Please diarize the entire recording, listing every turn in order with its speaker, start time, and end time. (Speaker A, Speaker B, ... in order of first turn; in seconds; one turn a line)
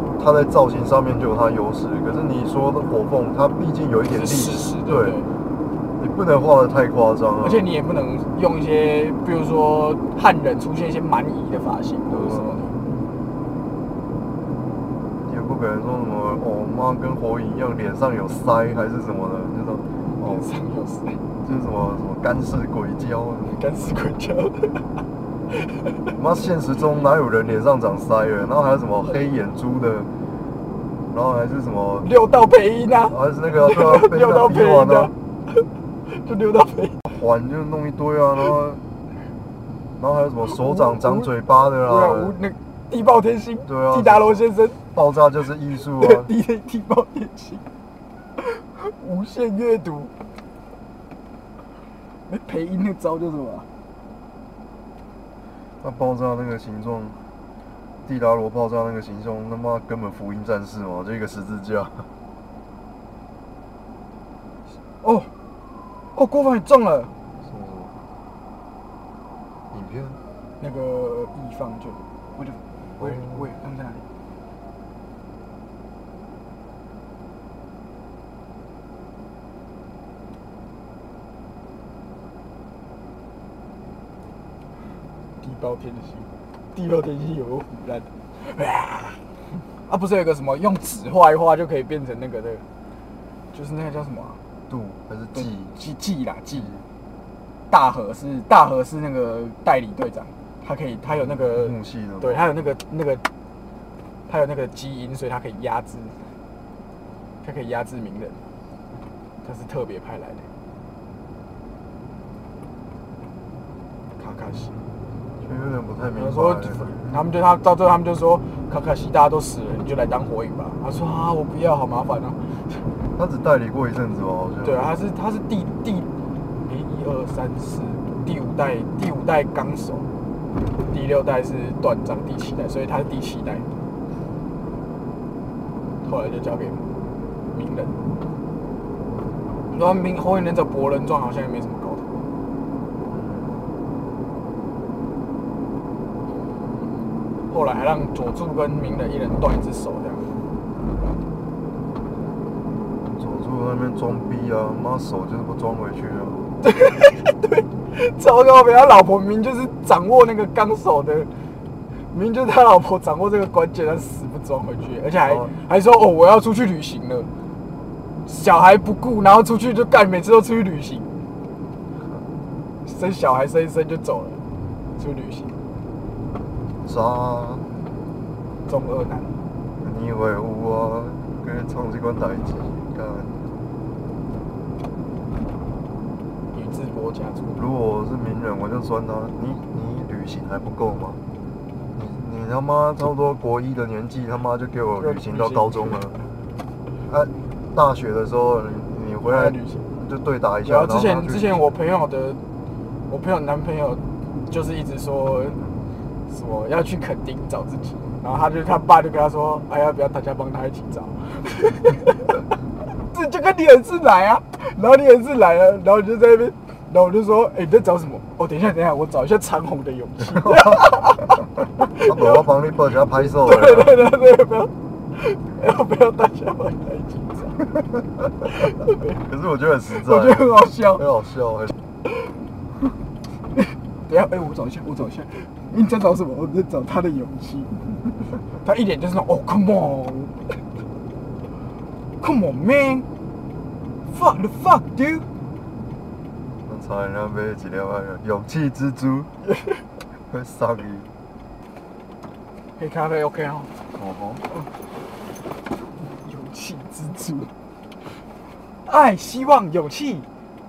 Speaker A: 0.2-5.2
Speaker B: 4.1-5.3
Speaker A: 6.0-7.7
Speaker B: 7.4-12.8
Speaker A: 12.1-12.6
Speaker A: 15.2-20.4
Speaker B: 20.2-21.2
Speaker A: 21.4-23.6
Speaker B: 23.4-24.9
Speaker B: 25.6-26.0
Speaker A: 26.2-30.1
Speaker A: 31.1-32.1
Speaker B: 32.0-35.1
Speaker A: 33.1-35.1
Speaker B: 36.1-37.0
Speaker A: 37.1-38.8
Speaker A: 40.0-42.4
Speaker B: 40.5-44.8
Speaker A: 43.7-46.3
Speaker B: 45.9-47.6
Speaker B: 48.4-50.1
Speaker B: 52.3-53.7
Speaker A: 55.8-57.2
Speaker A: 58.0-62.0
Speaker B: 65.0-65.3
Speaker B: 66.1-67.1
Speaker A: 67.4-67.9
Speaker A: 69.7-70.2
Speaker B: 70.6-74.0
Speaker A: 73.0-73.5
Speaker B: 85.4-89.2
Speaker B: 89.9-92.6
Speaker B: 93.5-94.4
Speaker A: 94.7-95.8
Speaker B: 95.3-96.7
Speaker A: 96.5-96.8
Speaker B: 97.7-103.2
Speaker A: 101.1-102.4
Speaker B: 104.3-106.1
Speaker B: 107.4-108.4
Speaker B: 109.4-110.5
Speaker B: 114.2-114.8
Speaker A: 115.4-117.2
Speaker B: 116.2-122.4
Speaker A: 123.2-124.9
Speaker B: 124.6-126.1
Speaker B: 126.6-130.1
Speaker B: 130.9-133.7
Speaker B: 136.0-136.8
Speaker B: 137.5-137.9
Speaker B: 139.7-142.1
Speaker A: 143.1-143.7
Speaker B: 147.5-150.2
Speaker A: 153.2-156.6
Speaker B: 156.6-161.3
Speaker B: 162.1-167.3
Speaker A: 165.2-165.5
Speaker B: 168.2-171.1
Speaker B: 172.8-174.4
Speaker B: 175.0-175.5
Speaker A: 176.8-177.6
Speaker B: 178.7-179.3
Speaker A: 179.8-183.4
Speaker B: 186.5-187.6
Speaker A: 187.6-191.2
Speaker A: 191.9-196.2
Speaker B: 195.0-196.0
Speaker A: 197.1-201.7
Speaker B: 199.2-199.8
Speaker B: 200.6-202.4
Speaker B: 203.1-205.6
Speaker B: 206.3-212.5
Speaker B: 213.1-222.4
Speaker A: 220.2-221.0
Speaker A: 221.9-224.0
Speaker B: 223.2-227.6
Speaker B: 228.6-229.2
Speaker A: 229.2-231.7
Speaker B: 230.0-231.0
Speaker B: 233.6-238.0
Speaker B: 238.5-240.3
Speaker B: 242.2-243.1
Speaker B: 244.1-245.2
Speaker A: 246.7-249.3
Speaker A: 250.3-251.1
Speaker B: 252.8-253.7
Speaker A: 254.0-254.4
Speaker B: 256.0-257.5
Speaker B: 258.9-260.3